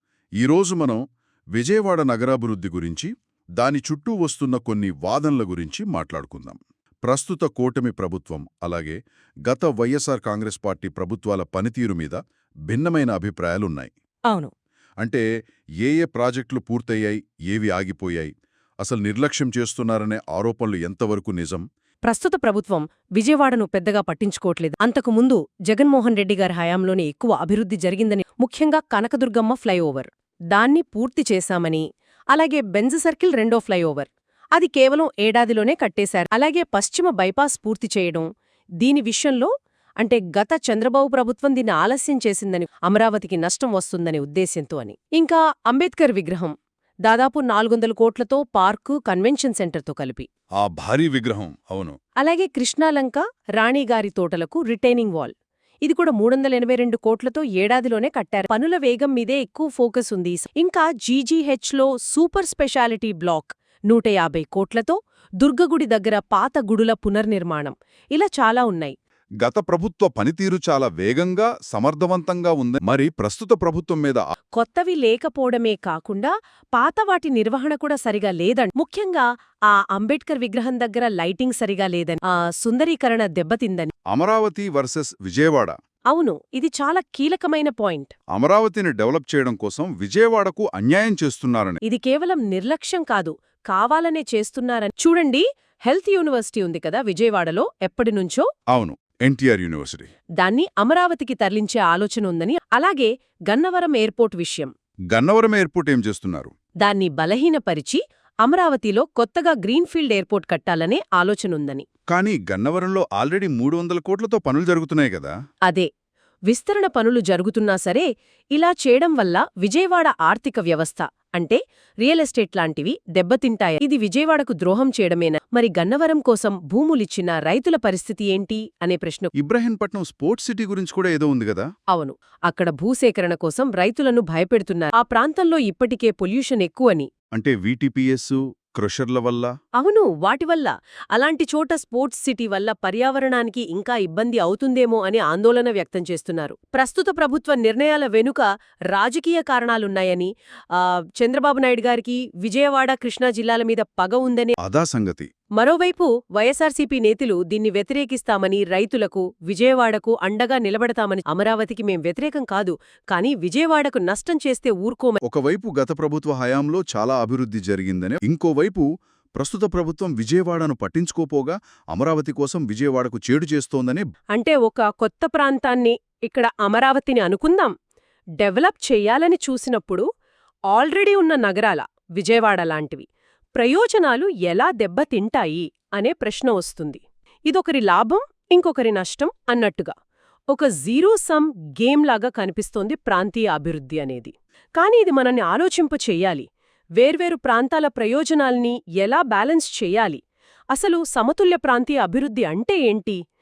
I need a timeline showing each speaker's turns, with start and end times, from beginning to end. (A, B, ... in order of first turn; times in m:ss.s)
0:00.4-0:01.0 A
0:01.5-0:13.9 A
0:15.8-0:18.3 A
0:18.8-0:21.6 A
0:22.0-0:38.3 B
0:38.8-0:46.5 B
0:47.0-0:50.3 B
0:50.6-0:52.0 A
0:52.2-1:09.0 B
1:09.4-1:14.2 A
1:14.5-1:23.9 B
1:24.1-1:25.7 A
1:26.1-1:28.1 B
1:28.3-1:31.8 A
1:31.8-1:38.5 B
1:38.7-1:40.1 A
1:40.4-1:44.7 B
1:45.1-1:46.5 A
1:46.8-1:51.8 B
1:52.1-1:55.3 A
1:56.5-2:09.3 B
2:09.4-2:11.6 A
2:11.9-2:17.1 B
2:17.3-2:19.5 A
2:19.8-2:34.6 B
2:34.6-2:35.3 A
2:35.6-2:45.2 B
2:45.2-2:54.0 A
2:54.3-2:57.7 B
2:58.4-3:00.0 B
3:00.7-3:09.9 B
3:10.5-3:16.4 B
3:17.0-3:20.2 B
3:20.7-3:23.2 B